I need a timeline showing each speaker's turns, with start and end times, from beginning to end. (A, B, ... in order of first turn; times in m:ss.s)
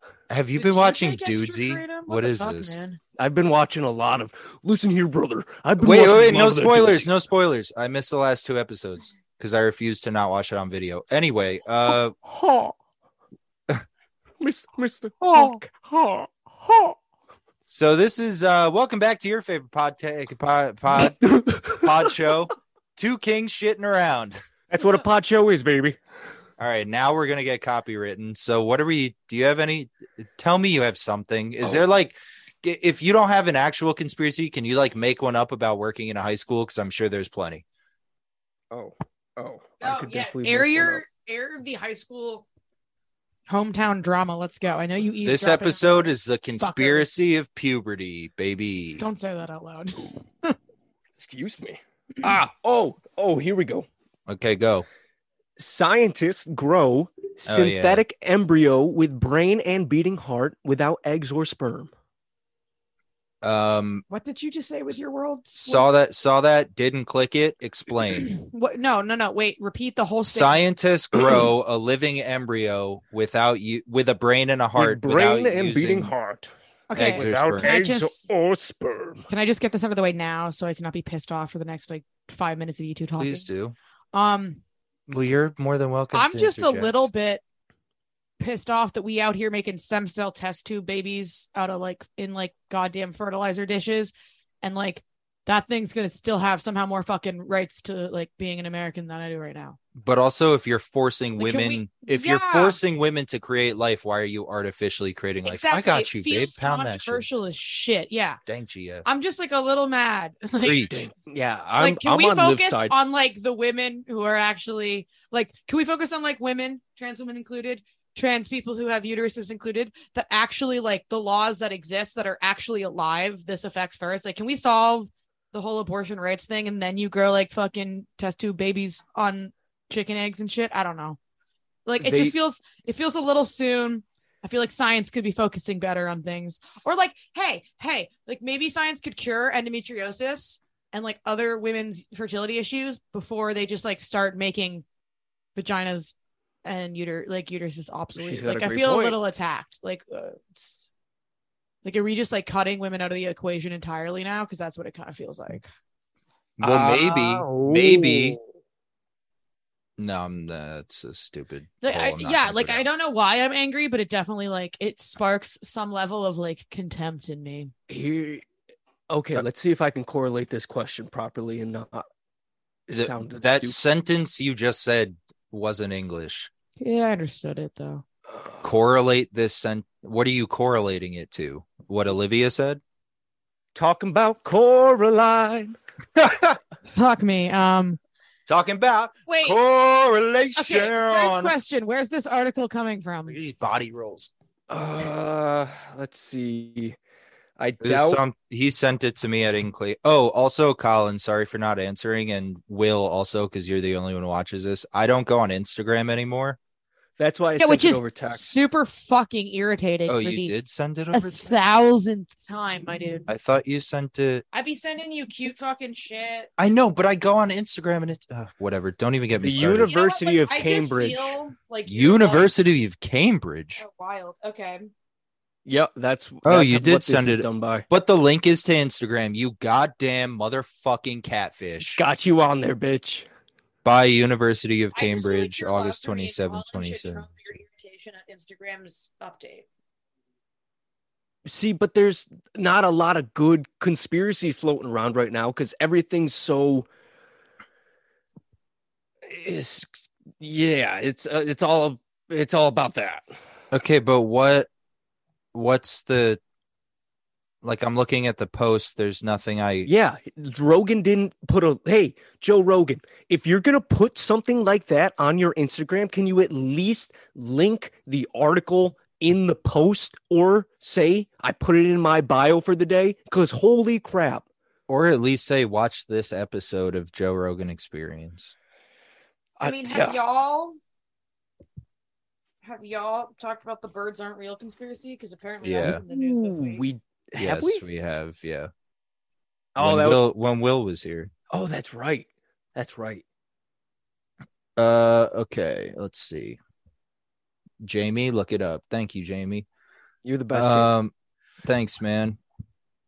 0:00.3-0:02.8 A
0:00.6-0:03.0 B
0:03.2-0:07.1 C
0:05.8-0:12.1 A
0:12.2-0:12.7 C
0:14.4-0:17.0 C
0:15.2-0:15.6 A
0:17.7-0:24.4 A
0:21.0-0:21.9 C
0:24.7-0:26.0 C
0:26.6-0:37.6 A
0:38.7-0:41.0 C
0:39.8-0:42.4 B
0:43.5-0:47.1 B
0:45.2-0:49.0 A
0:49.0-0:50.6 B
0:51.2-0:53.9 C
0:54.3-0:54.8 A
0:55.6-1:01.9 C
0:57.5-0:58.0 A
1:03.4-1:04.0 A
1:04.1-1:05.9 B
1:05.6-1:08.3 A
1:08.3-1:10.6 B
1:10.2-1:16.1 A
1:11.2-1:11.4 C
1:14.8-1:19.3 C
1:16.9-1:18.3 B
1:16.9-1:17.7 A
1:19.3-1:23.5 B
1:23.2-1:23.8 A
1:24.1-1:24.6 B
1:25.1-1:27.1 A
1:26.1-1:27.4 B
1:28.4-1:39.8 B
1:40.0-1:47.3 A
1:41.4-1:42.8 B
1:45.4-1:48.4 B
1:48.5-1:49.1 A
1:49.0-1:51.0 B
1:50.6-1:51.0 A
1:50.9-1:52.9 C
1:51.8-2:11.2 B
2:11.8-2:24.8 B
2:12.0-2:12.3 C
2:25.6-2:30.9 B
2:28.1-2:29.2 C
2:31.8-2:35.7 B
2:36.6-2:38.4 A
2:36.6-2:38.4 C
2:40.0-2:42.9 A
2:41.8-2:47.7 B
2:47.9-2:48.4 C
2:49.1-2:52.1 C
2:52.9-2:53.8 C
2:52.9-2:56.5 A
2:56.8-2:58.0 B
2:58.6-3:02.8 A
3:03.8-3:05.8 C
3:06.2-3:06.6 A
3:06.9-3:08.0 B
3:08.5-3:11.5 A
3:09.3-3:09.6 B
3:10.6-3:13.4 B
3:13.3-3:14.3 A
3:14.7-3:17.0 C
3:17.6-3:18.2 C
3:17.8-3:26.6 A
3:27.2-3:28.4 C
3:27.6-3:30.5 B
3:30.1-3:31.6 A
3:31.1-3:33.3 B
3:33.3-3:34.4 A
3:34.5-3:36.5 B
3:36.6-3:39.9 A
3:39.4-3:41.4 C
3:39.9-3:42.5 B
3:41.8-3:43.8 A
3:43.8-3:44.9 B
3:45.7-3:47.8 C
3:46.4-3:52.0 A
3:51.8-3:53.2 C
3:53.8-3:57.2 A
3:54.9-3:59.7 B
4:01.4-4:06.9 C
4:09.2-4:13.2 C
4:13.7-4:14.7 A
4:15.5-4:16.4 A
4:17.6-4:19.9 A
4:19.8-4:34.4 C
4:34.9-4:38.5 A
4:39.6-4:40.2 C
4:39.6-4:40.8 B
4:42.6-4:46.8 B
4:45.6-4:46.0 A
4:45.8-4:47.8 C
4:47.4-4:48.7 A
4:49.8-4:50.2 C
4:49.8-4:51.3 A
4:51.5-4:53.2 C
4:54.8-4:56.6 A
4:57.8-4:59.7 A
5:00.2-5:00.9 C
5:00.5-5:01.1 A
5:01.6-5:02.4 A